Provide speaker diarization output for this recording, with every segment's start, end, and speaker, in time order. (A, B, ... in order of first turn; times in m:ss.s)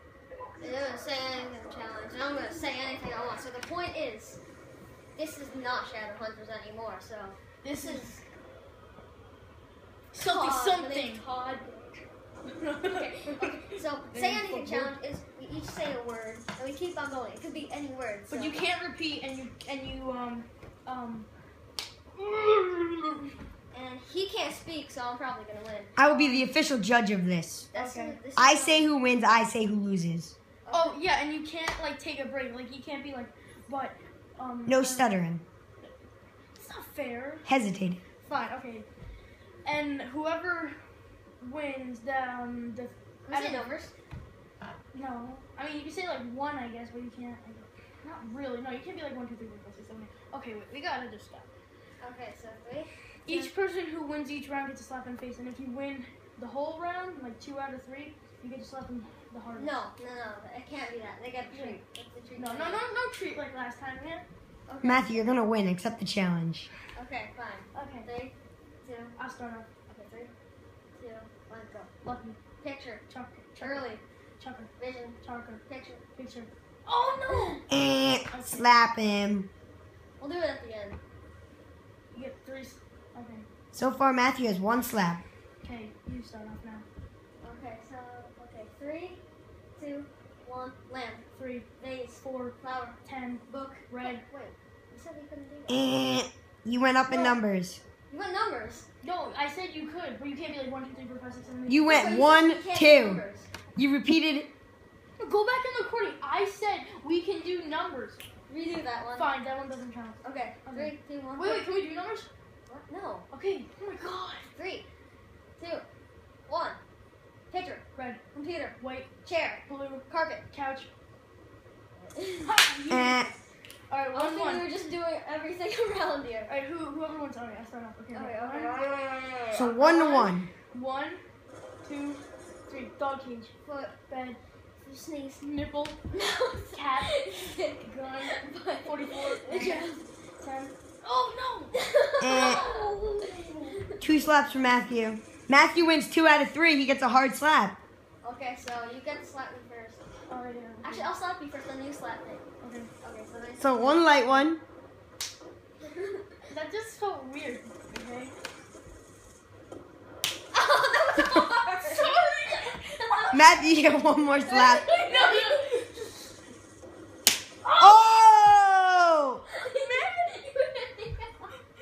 0:00.6-0:04.4 A
0:05.2-0:08.2 A
0:07.6-0:08.2 B
0:10.1-0:11.2 B
0:10.2-0:12.0 A
0:12.5-0:15.0 B
0:12.8-0:18.6 A
0:18.3-0:21.3 B
0:22.2-0:23.2 B
0:23.7-0:25.9 A
0:26.0-0:27.7 C
0:26.1-0:26.4 B
0:27.7-0:28.9 A
0:27.8-0:28.2 B
0:28.4-0:30.3 C
0:30.6-0:31.0 A
0:30.7-0:35.1 B
0:34.7-0:35.4 C
0:36.6-0:37.5 B
0:37.5-0:38.0 C
0:38.2-0:38.9 B
0:39.6-0:40.8 B
0:41.4-0:43.6 B
0:43.2-0:43.9 A
0:44.9-0:51.5 B
0:52.0-0:53.5 A
0:53.3-0:59.8 B
0:59.5-1:02.8 A
1:01.5-1:01.8 B
1:02.4-1:04.2 B
1:04.7-1:05.4 A
1:04.8-1:06.7 C
1:06.9-1:09.2 A
1:07.7-1:08.1 B
1:09.2-1:09.7 B
1:09.9-1:10.3 A
1:11.0-1:11.9 A
1:12.0-1:12.4 B
1:12.6-1:13.0 A
1:13.1-1:13.9 B
1:13.6-1:14.0 A
1:14.4-1:14.7 B
1:14.8-1:16.0 A
1:15.2-1:15.6 B
1:16.2-1:17.6 B
1:17.3-1:17.6 A
1:17.7-1:19.5 C
1:18.3-1:18.7 B
1:20.2-1:21.0 A
1:22.1-1:23.5 B
1:23.7-1:25.2 C
1:25.6-1:26.8 B
1:27.4-1:29.2 A
1:29.8-1:31.2 A
1:31.3-1:31.7 B
1:31.8-1:35.9 A
1:32.2-1:34.2 B
1:35.7-1:37.8 C
1:37.0-1:37.4 A
1:38.1-1:38.9 A
1:39.0-1:42.2 B
1:41.7-1:43.2 C
1:41.9-1:43.5 A
1:43.8-1:44.5 C
1:45.2-1:48.2 B
1:48.5-1:49.3 A
1:49.2-1:52.3 B
1:50.2-1:51.7 A
1:52.7-1:53.3 A
1:53.3-1:54.5 B
1:54.5-1:54.9 A
1:55.6-1:55.8 A
1:56.5-1:56.8 A
1:57.5-2:00.5 A
1:58.0-1:58.2 B
1:58.8-1:59.1 B
1:59.7-2:00.9 B
2:02.0-2:02.5 A
2:02.4-2:03.3 B
2:02.9-2:03.3 C
2:03.9-2:04.7 B
2:04.1-2:06.5 A
2:06.5-2:08.7 B
2:08.1-2:09.8 A
2:09.5-2:10.5 C
2:09.7-2:11.2 B
2:11.8-2:13.6 B
2:13.6-2:14.0 A
2:14.1-2:14.4 B
2:14.8-2:15.5 A
2:15.4-2:16.0 B
2:16.1-2:20.0 A
2:16.7-2:21.7 B
2:21.7-2:24.0 A
2:22.2-2:22.6 C
2:22.4-2:23.8 B
2:24.0-2:27.8 C
2:28.2-2:30.0 A
2:30.3-2:31.1 B
2:30.8-2:32.4 A
2:32.6-2:32.9 B
2:33.0-2:34.2 A
2:33.6-2:34.6 C
2:35.8-2:36.3 A
2:36.5-2:38.3 B
2:40.5-2:43.8 A
2:41.8-2:43.3 B
2:43.3-2:44.9 C
2:44.4-2:45.8 A
2:44.8-2:46.0 B
2:47.6-2:48.1 B
2:47.8-2:49.4 C
2:49.5-2:51.4 A
2:49.6-2:50.3 B